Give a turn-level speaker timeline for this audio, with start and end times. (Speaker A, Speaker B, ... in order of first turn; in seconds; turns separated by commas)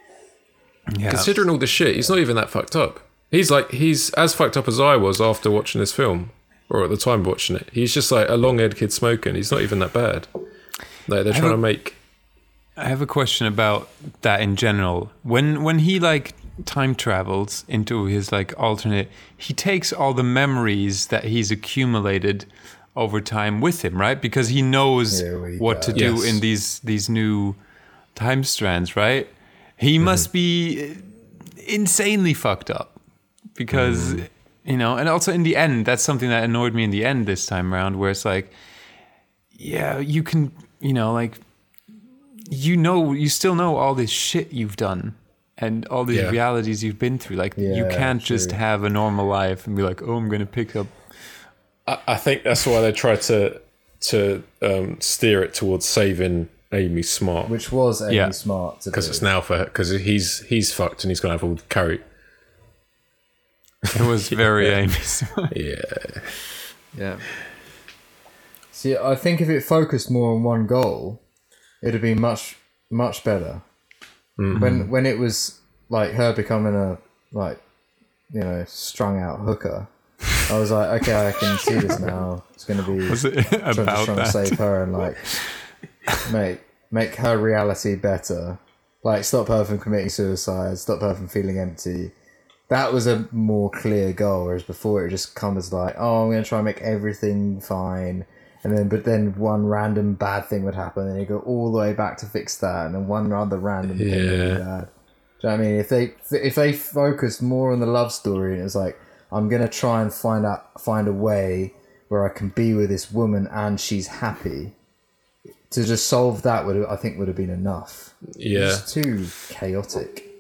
Speaker A: 0.9-1.4, Speaker B: 1.1-10.3, Speaker B: 11.1-12.0, Speaker A: 11.3-11.6, Speaker A: 12.8-27.6, Speaker C: 25.1-26.1, Speaker B: 25.9-26.4, Speaker A: 28.1-33.0, Speaker A: 33.5-38.5, Speaker B: 33.7-34.2, Speaker A: 39.5-41.4, Speaker A: 42.5-50.9, Speaker B: 46.1-46.4, Speaker C: 47.6-48.6, Speaker B: 51.9-57.5, Speaker C: 57.5-59.2, Speaker A: 58.1-58.3, Speaker B: 58.9-62.0, Speaker A: 63.9-65.5, Speaker B: 64.0-64.7, Speaker B: 65.5-66.3, Speaker C: 66.9-67.2, Speaker C: 68.7-71.2, Speaker C: 71.8-73.6, Speaker B: 74.4-74.8, Speaker A: 74.5-74.9, Speaker C: 74.5-77.6, Speaker C: 78.3-85.4, Speaker A: 83.0-84.6, Speaker C: 86.2-92.1, Speaker C: 92.7-104.9, Speaker B: 103.9-104.6, Speaker C: 105.4-114.7, Speaker C: 115.7-120.3, Speaker B: 118.3-118.8